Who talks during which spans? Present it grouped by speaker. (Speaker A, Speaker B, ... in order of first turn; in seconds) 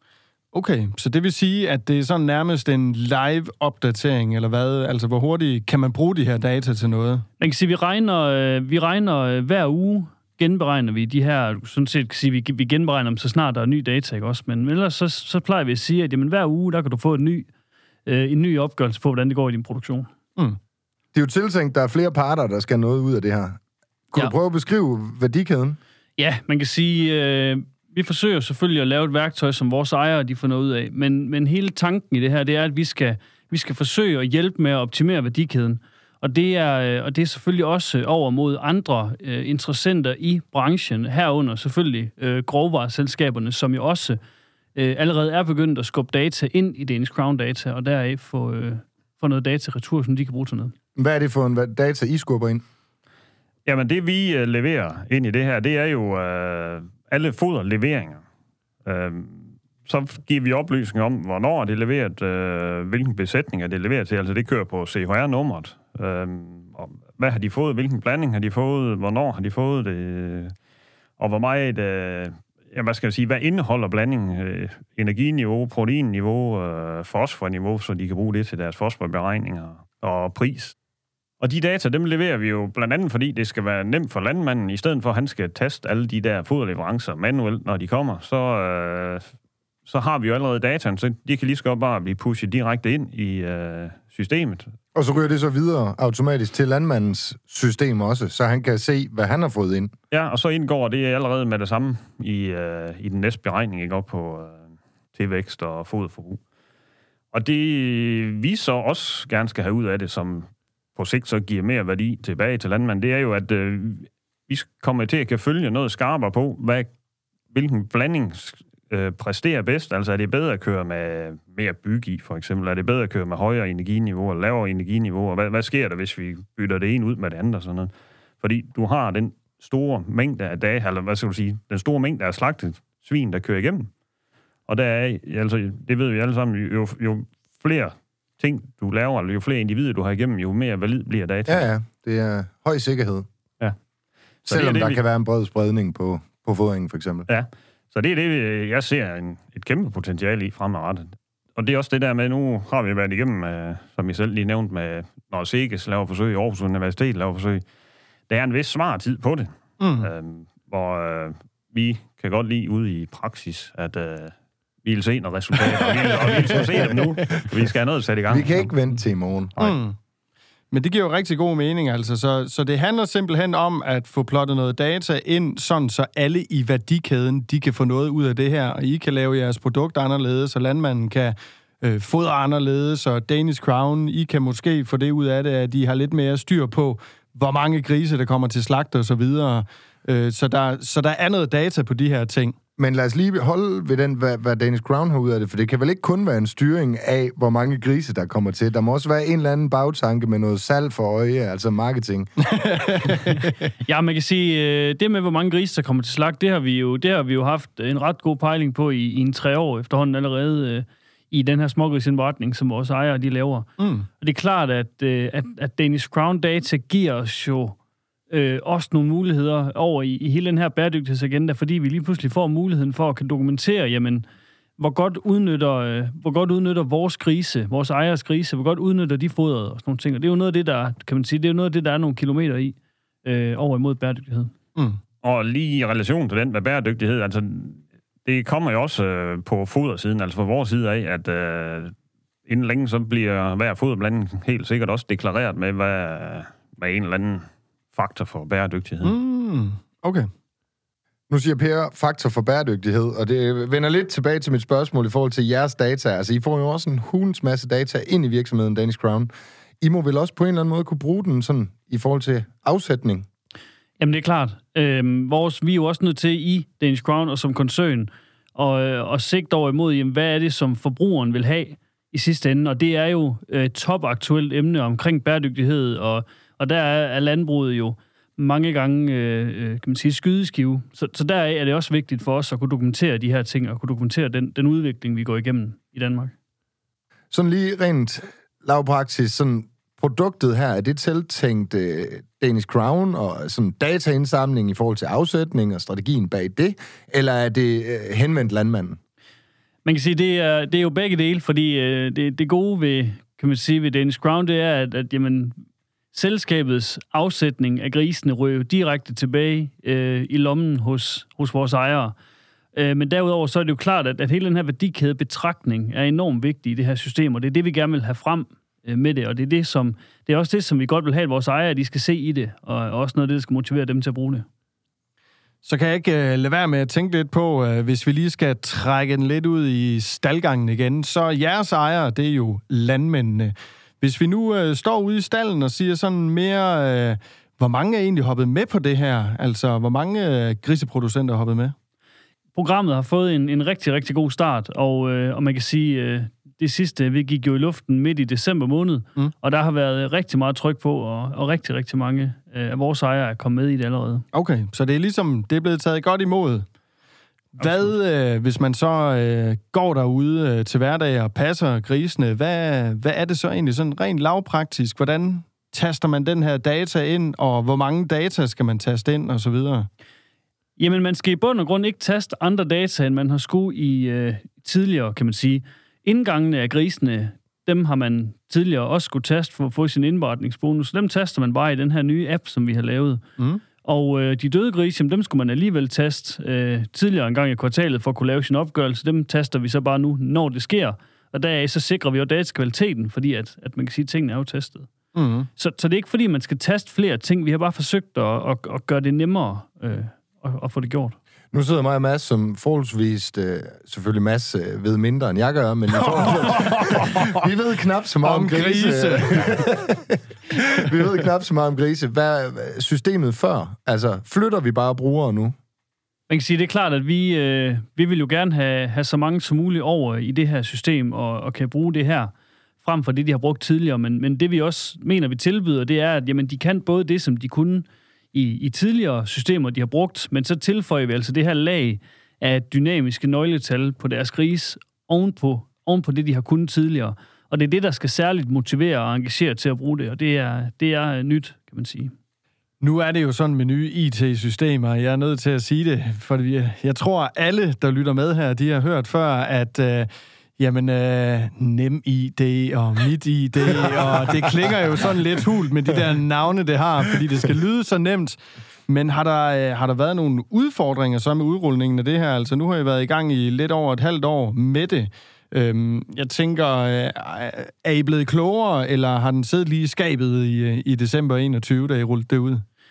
Speaker A: 0.5-7.2, 159.8-160.1, 165.9-167.0, 169.6-170.0, 170.7-192.6, 202.5-203.6, 213.8-214.1, 249.0-250.3, 325.6-341.7, 354.3-356.6, 357.6-369.9, 395.1-395.5, 405.9-407.4, 408.2-409.9, 442.8-472.6
Speaker B: 7.4-17.5, 18.1-20.1, 26.2-44.2, 44.8-50.7, 203.9-217.8, 218.3-224.2, 224.8-234.5, 264.0-286.3, 299.9-305.6, 306.1-312.1, 312.8-324.5, 342.6-354.2, 370.8-383.2, 383.8-394.9, 395.6-401.2, 416.3-442.1
Speaker C: 21.1-23.6, 24.1-25.8, 51.0-52.6, 95.0-99.9, 141.5-143.3, 144.5-147.3, 168.3-169.5, 192.8-202.3, 251.3-259.3, 259.8-263.3, 287.3-299.0, 401.5-415.6
Speaker D: 53.6-58.2, 58.9-70.5, 71.2-80.8, 81.4-89.3, 89.9-94.7, 100.1-104.6, 105.1-106.4, 107.3-116.9, 117.5-133.9, 134.7-141.7, 144.4-145.0, 147.3-157.6, 158.3-168.7, 235.2-241.9, 242.5-249.2